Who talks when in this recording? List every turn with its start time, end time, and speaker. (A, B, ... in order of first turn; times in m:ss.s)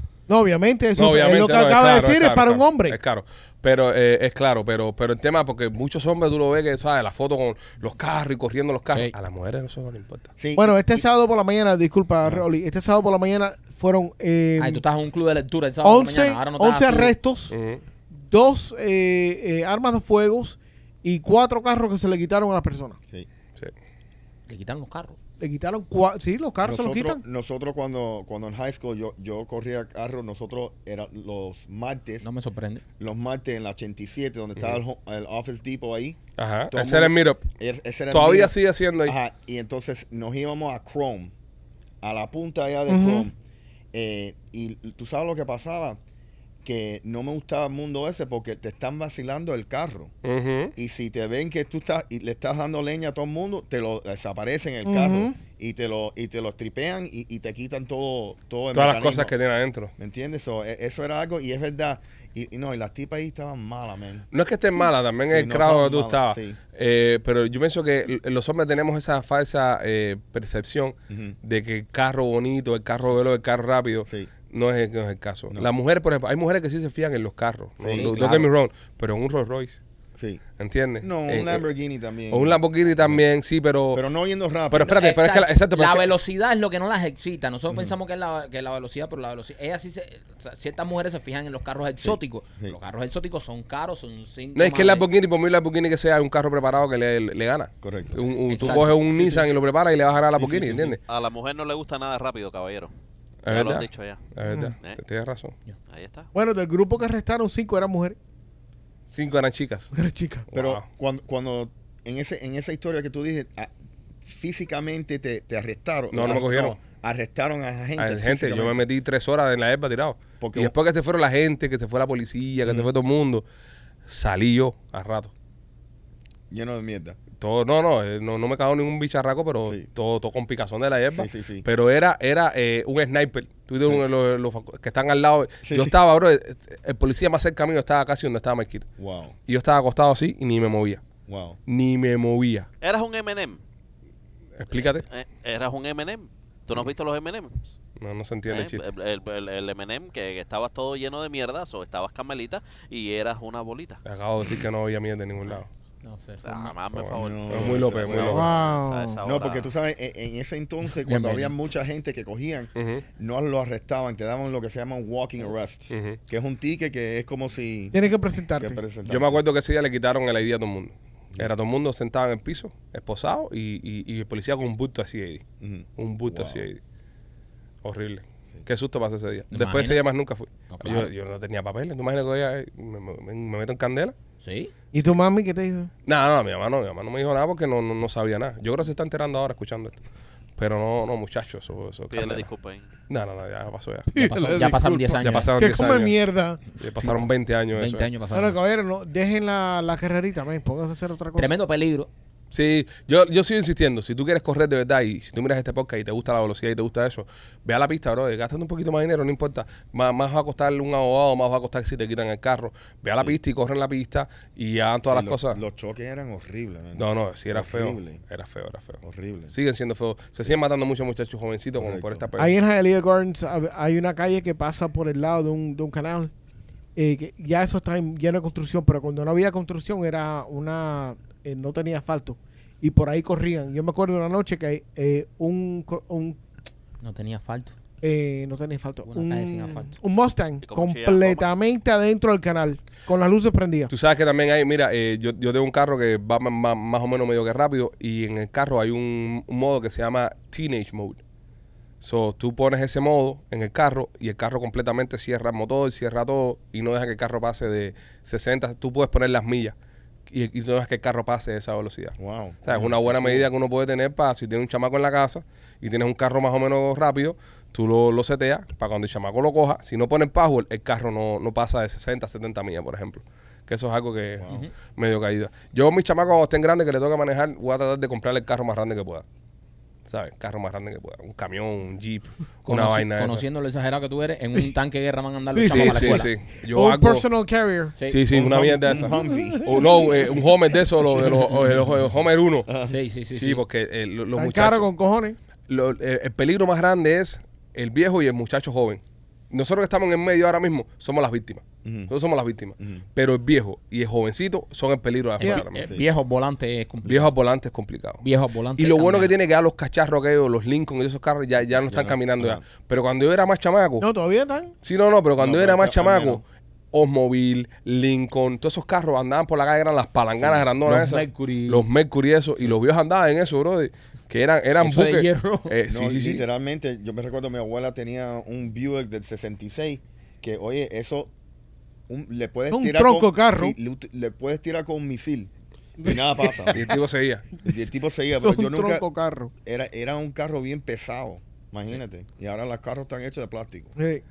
0:00.3-0:03.0 A
0:01.0-0:10.3 B
0:10.4-0:11.0 C
0:10.6-0:14.8 A
0:14.6-0:17.1 D
0:15.8-0:17.5 A
0:17.5-0:17.8 B
0:18.2-0:23.0 A
0:24.5-0:25.2 D
0:25.4-0:27.2 A
0:26.6-0:32.2 C
0:32.2-0:32.8 D
0:33.0-0:36.2 C
0:36.4-0:37.4 B
0:36.7-0:41.3 C
0:38.1-0:39.1 B
0:42.0-0:43.3 C
0:42.9-0:43.3 A
0:43.9-0:46.0 C
0:46.6-0:50.1 C
0:50.2-0:50.7 B
0:50.7-0:59.3 C
0:54.8-0:55.3 A
0:58.7-0:59.9 B
1:00.0-1:04.2 C
1:04.3-1:19.8 B
1:05.3-1:06.6 C
1:11.1-1:11.4 C
1:17.8-1:18.2 C
1:17.9-1:18.5 D
1:20.2-1:20.4 C
1:20.6-1:21.6 B
1:21.0-1:23.2 C
1:22.3-1:24.0 B
1:23.9-1:25.0 C
1:24.7-1:26.1 B
1:24.9-1:35.1 D
1:32.0-1:32.8 C
1:34.5-1:41.0 B
1:37.8-1:38.2 C
1:38.5-1:39.4 D
1:40.3-1:41.0 C
1:41.1-1:42.9 E
1:43.4-1:45.5 B
1:43.5-1:44.2 E
1:44.5-1:44.7 A
1:45.9-1:46.3 E
1:46.3-1:48.2 A
1:49.1-1:49.9 B
1:49.9-1:50.5 A
1:50.5-1:50.8 B
1:50.5-1:53.7 C
1:54.2-1:58.8 C
1:56.1-1:56.8 B
1:58.0-2:03.4 B
2:00.4-2:00.7 C
2:04.0-2:05.3 B
2:06.5-2:07.2 C
2:07.4-2:18.8 B
2:11.1-2:11.6 C
2:15.6-2:15.9 C
2:19.0-2:19.3 C
2:19.5-2:21.0 B
2:21.3-2:21.6 C
2:21.7-2:22.7 B
2:22.8-2:23.6 E
2:24.6-2:25.0 B
2:24.7-2:27.7 E
2:28.0-2:28.9 B
2:28.5-2:34.0 E
2:34.0-2:35.7 B
2:36.0-2:36.7 D
2:36.4-2:39.7 E
2:36.9-2:38.5 B
2:37.2-2:38.5 C
2:38.2-2:39.2 A
2:39.2-2:48.0 C
2:41.0-2:41.5 D
2:42.8-2:43.0 B
2:45.9-2:46.2 B
2:47.9-2:48.8 A
2:48.6-2:49.4 C
2:49.0-2:55.4 B
2:55.6-2:56.6 C
2:56.0-2:56.8 B
2:57.8-3:04.1 B
2:59.5-3:00.0 D
3:00.7-3:01.1 D
3:04.4-3:04.7 D
3:04.9-3:05.9 A
3:06.0-3:10.0 B
3:10.6-3:12.5 B
3:12.1-3:12.9 E
3:13.1-3:14.1 B
3:14.1-3:16.6 A
3:14.1-3:15.5 D
3:15.2-3:16.1 B
3:16.8-3:18.1 B
3:17.0-3:18.6 D
3:18.3-3:21.5 A
3:21.3-3:22.1 D
3:22.5-3:35.6 B
3:35.0-3:38.2 C
3:37.0-3:42.6 B
3:39.0-3:39.5 C
3:41.8-3:42.2 C
3:42.4-3:46.3 A
3:47.0-3:56.4 A
3:57.0-3:57.7 D
3:58.0-4:03.9 A
3:59.0-3:59.9 D
4:00.6-4:01.4 E
4:03.9-4:11.2 B
4:12.0-4:19.7 B
4:20.3-4:39.2 B
4:22.2-4:23.5 C
4:34.4-4:34.6 C
4:40.1-4:43.4 B
4:42.7-4:46.3 D
4:45.5-4:47.9 A
4:45.6-4:47.2 B
4:48.0-4:52.7 B
4:48.3-4:50.4 C
4:48.9-4:50.1 A
4:52.7-4:52.9 C
4:52.8-4:53.6 D
4:53.3-4:54.9 B
4:54.4-4:55.4 A
4:55.7-5:05.9 B
5:01.8-5:02.1 C
5:05.4-5:07.3 D
5:07.0-5:08.2 B
5:08.2-5:09.3 D
5:08.8-5:14.1 B
5:11.8-5:12.6 C
5:14.0-5:14.7 A
5:14.8-5:26.4 B
5:15.4-5:16.4 C
5:20.4-5:20.6 C
5:20.8-5:21.8 D
5:24.8-5:25.8 D
5:25.9-5:31.3 C
5:32.1-5:36.8 C
5:32.7-5:33.7 A
5:36.0-5:36.9 A
5:36.7-5:37.4 B
5:37.6-5:39.0 C
5:38.3-5:39.5 A
5:39.6-5:43.9 C
5:44.0-5:44.2 A